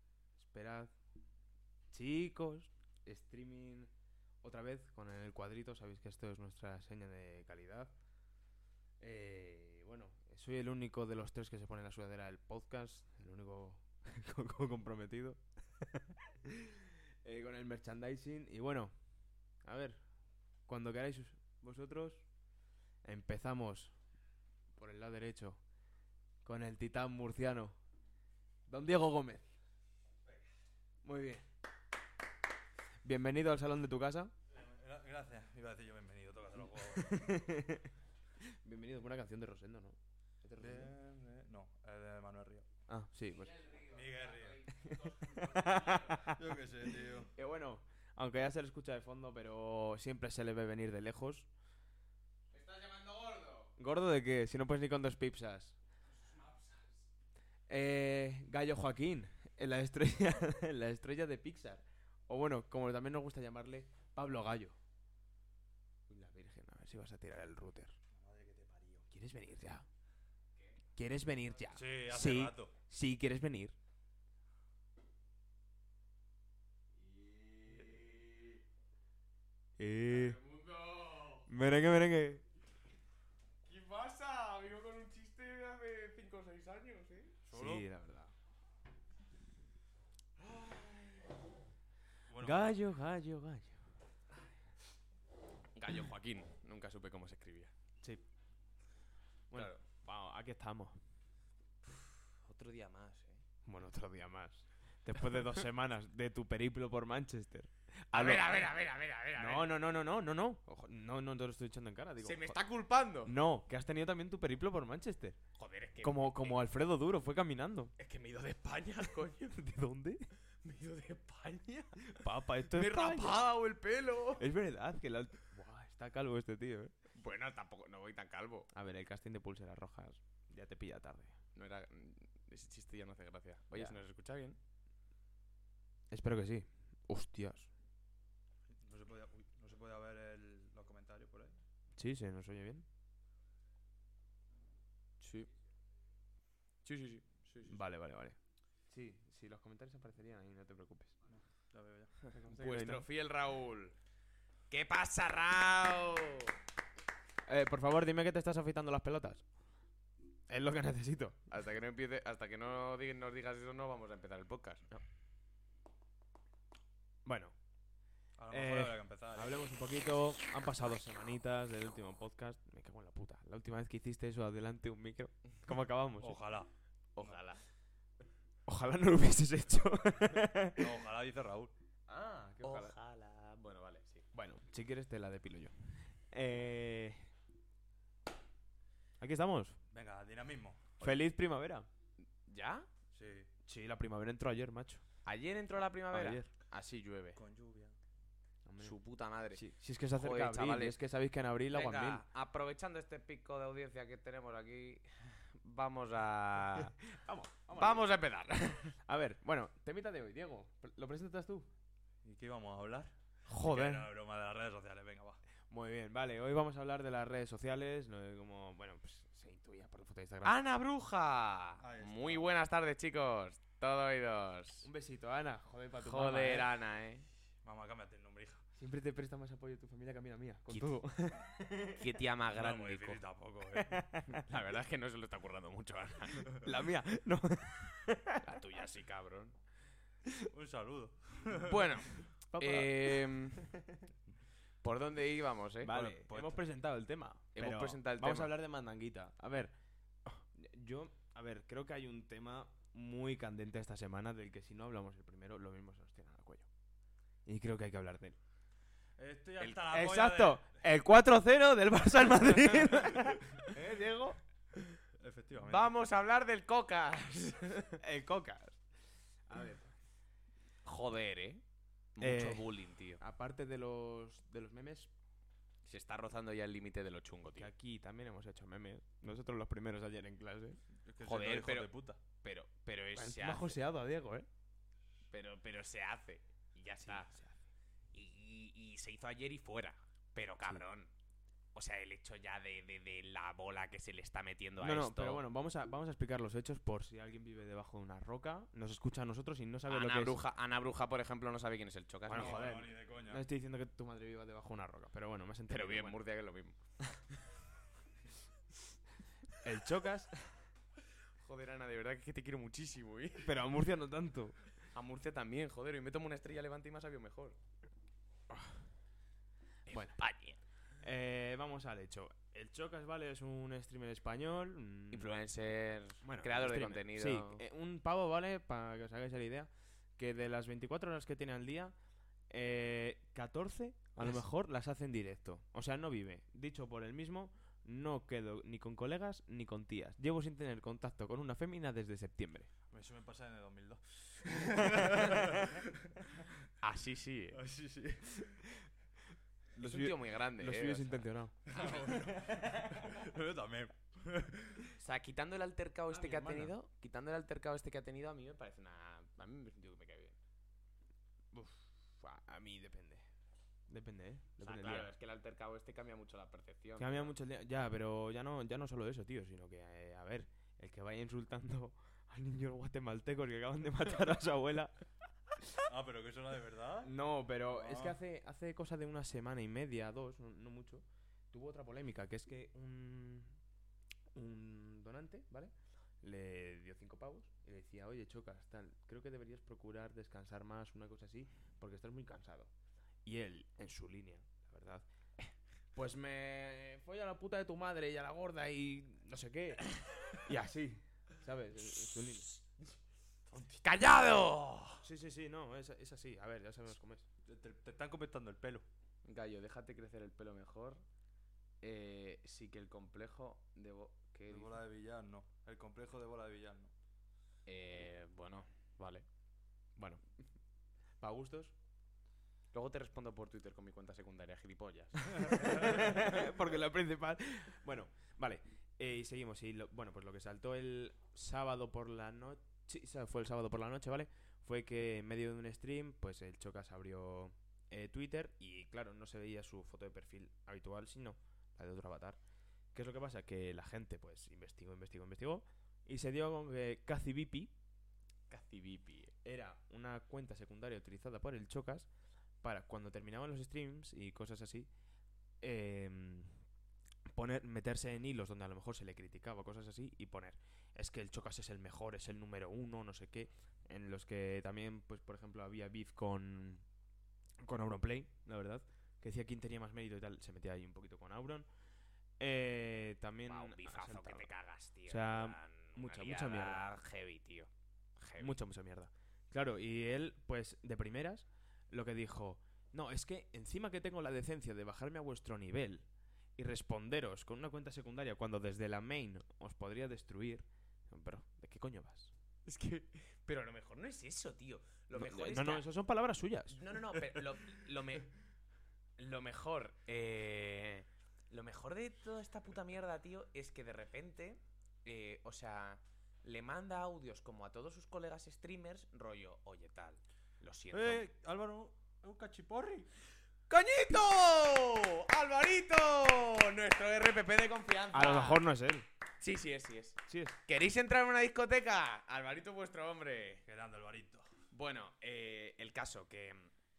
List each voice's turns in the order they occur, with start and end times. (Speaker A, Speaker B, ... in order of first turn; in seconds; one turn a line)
Speaker A: 0.4-0.9
Speaker A: 1.9-3.9
Speaker A: 4.4-7.9
Speaker A: 9.0-18.9
Speaker A: 19.6-20.0
Speaker A: 20.7-22.2
Speaker A: 23.0-23.9
Speaker A: 24.8-25.6
Speaker A: 26.4-27.8
Speaker A: 28.7-29.5
Speaker A: 31.0-31.4
Speaker A: 33.0-34.3
Speaker B: 34.5-37.5
Speaker A: 37.0-37.9
Speaker A: 38.4-40.9
Speaker B: 40.6-42.7
Speaker A: 42.9-43.7
Speaker C: 43.6-46.3
Speaker B: 43.9-44.6
Speaker A: 44.8-46.4
Speaker B: 46.2-47.3
Speaker A: 47.3-51.5
Speaker C: 52.5-53.7
Speaker A: 53.8-55.8
Speaker C: 56.3-56.9
Speaker A: 57.7-64.8
Speaker A: 66.1-68.0
Speaker B: 68.1-69.1
Speaker A: 69.1-69.9
Speaker A: 71.0-73.8
Speaker B: 71.7-72.7
Speaker C: 77.0-78.6
Speaker A: 79.8-80.4
Speaker C: 80.1-81.5
Speaker A: 81.5-82.4
Speaker C: 83.7-87.4
Speaker B: 87.5-87.9
Speaker A: 87.5-88.3
Speaker C: 90.4-91.4
Speaker B: 92.3-92.8
Speaker A: 92.4-93.8
Speaker C: 95.8-97.7
Speaker A: 99.5-101.0
Speaker C: 99.5-99.8
Speaker C: 101.8-103.4
Speaker A: 103.7-108.7
Speaker C: 108.1-109.8
Speaker A: 109.4-112.6
Speaker C: 112.2-113.3
Speaker A: 113.2-115.4
Speaker C: 115.6-116.6
Speaker A: 116.0-117.9
Speaker C: 118.0-119.6
Speaker A: 119.5-120.3
Speaker C: 120.6-122.1
Speaker A: 122.0-123.5
Speaker C: 122.7-124.5
Speaker A: 124.4-126.9
Speaker C: 127.2-128.7
Speaker A: 128.7-131.4
Speaker C: 131.6-134.6
Speaker A: 136.1-137.7
Speaker B: 138.7-141.6
Speaker A: 142.0-142.8
Speaker C: 145.2-145.5
Speaker C: 146.8-147.4
Speaker B: 147.4-147.8
Speaker A: 147.7-148.4
Speaker A: 148.9-151.2
Speaker B: 151.3-152.1
Speaker A: 152.3-153.1
Speaker C: 152.4-154.0
Speaker C: 154.7-156.6
Speaker A: 157.5-159.4
Speaker A: 160.5-161.5
Speaker C: 161.5-164.9
Speaker A: 167.2-167.5
Speaker B: 168.4-169.7
Speaker A: 168.5-176.4
Speaker B: 176.2-177.4
Speaker C: 177.2-177.6
Speaker A: 178.7-180.9
Speaker B: 180.8-181.7
Speaker A: 182.1-182.9
Speaker C: 182.6-184.2
Speaker A: 184.3-187.3
Speaker A: 189.2-189.8
Speaker B: 189.9-191.2
Speaker A: 191.0-191.9
Speaker C: 192.5-192.9
Speaker B: 193.1-193.5
Speaker A: 193.7-195.0
Speaker C: 195.2-197.4
Speaker A: 196.1-196.5
Speaker B: 197.4-197.9
Speaker A: 198.7-199.0
Speaker C: 198.8-201.0
Speaker A: 199.5-202.2
Speaker C: 201.7-207.0
Speaker A: 207.0-208.1
Speaker C: 207.8-208.9
Speaker A: 209.1-211.7
Speaker B: 212.2-215.4
Speaker A: 213.5-214.1
Speaker A: 215.7-220.6
Speaker C: 220.4-224.9
Speaker B: 221.8-222.5
Speaker A: 224.8-226.7
Speaker C: 226.0-227.2
Speaker B: 227.6-228.6
Speaker A: 228.8-232.0
Speaker C: 231.8-233.2
Speaker B: 232.5-234.1
Speaker A: 233.7-234.4
Speaker C: 234.3-236.6
Speaker A: 236.6-238.4
Speaker C: 238.4-239.6
Speaker B: 240.5-241.9
Speaker C: 241.6-243.7
Speaker A: 242.5-244.0
Speaker C: 244.8-246.0
Speaker A: 245.8-249.7
Speaker B: 245.9-246.6
Speaker C: 247.6-248.5
Speaker A: 250.2-256.7
Speaker A: 257.5-258.4
Speaker B: 259.2-260.8
Speaker A: 259.9-264.4
Speaker B: 265.2-265.9
Speaker C: 265.6-268.0
Speaker A: 268.0-268.8
Speaker A: 269.5-269.9
Speaker C: 270.9-271.6
Speaker C: 272.2-273.2
Speaker A: 272.2-275.1
Speaker C: 275.9-277.7
Speaker A: 277.6-280.8
Speaker B: 281.1-282.2
Speaker C: 281.2-281.9
Speaker C: 282.4-283.8
Speaker A: 283.2-284.5
Speaker C: 285.3-287.4
Speaker A: 287.1-287.6
Speaker C: 288.1-291.1
Speaker C: 291.8-295.4
Speaker A: 294.8-300.4
Speaker C: 299.9-302.8
Speaker A: 302.3-306.2
Speaker B: 302.3-303.4
Speaker C: 305.7-306.8
Speaker A: 309.6-310.4
Speaker C: 311.4-313.5
Speaker A: 313.4-314.6
Speaker C: 314.9-317.6
Speaker C: 319.9-320.6
Speaker A: 319.9-320.2
Speaker A: 321.0-325.3
Speaker C: 325.1-327.6
Speaker A: 326.2-331.9
Speaker A: 332.5-342.7
Speaker B: 342.9-346.6
Speaker A: 345.1-345.6
Speaker C: 346.8-347.6
Speaker B: 347.5-348.6
Speaker A: 349.8-351.6
Speaker C: 349.8-352.1
Speaker B: 351.7-354.9
Speaker C: 355.0-360.4
Speaker A: 356.1-356.7
Speaker A: 361.5-363.3
Speaker A: 363.9-365.1
Speaker C: 364.6-367.3
Speaker A: 367.0-375.0
Speaker B: 375.9-378.2
Speaker A: 377.0-383.6
Speaker A: 384.4-392.7
Speaker A: 393.2-395.1
Speaker A: 396.0-402.6
Speaker B: 403.5-403.8
Speaker C: 403.8-405.0
Speaker A: 405.0-407.3
Speaker B: 407.5-408.9
Speaker C: 409.2-411.0
Speaker C: 411.8-414.8
Speaker B: 414.5-416.9
Speaker C: 417.7-419.2
Speaker A: 421.2-421.7
Speaker C: 422.7-426.4
Speaker A: 425.3-442.4
Speaker A: 442.9-447.7
Speaker C: 448.5-449.3
Speaker A: 449.4-452.1
Speaker A: 452.6-454.9
Speaker A: 455.6-456.6
Speaker A: 457.3-466.8
Speaker A: 467.6-471.7
Speaker A: 472.4-474.5
Speaker C: 473.5-478.6
Speaker A: 475.1-476.9
Speaker A: 478.4-486.1
Speaker A: 486.6-492.3
Speaker C: 492.7-495.9
Speaker A: 495.1-496.8
Speaker C: 496.7-498.3
Speaker C: 499.2-511.2
Speaker B: 510.9-513.1
Speaker C: 513.7-518.6
Speaker A: 518.1-519.1
Speaker C: 519.4-523.6
Speaker A: 520.3-520.6
Speaker B: 523.7-524.5
Speaker C: 524.7-526.7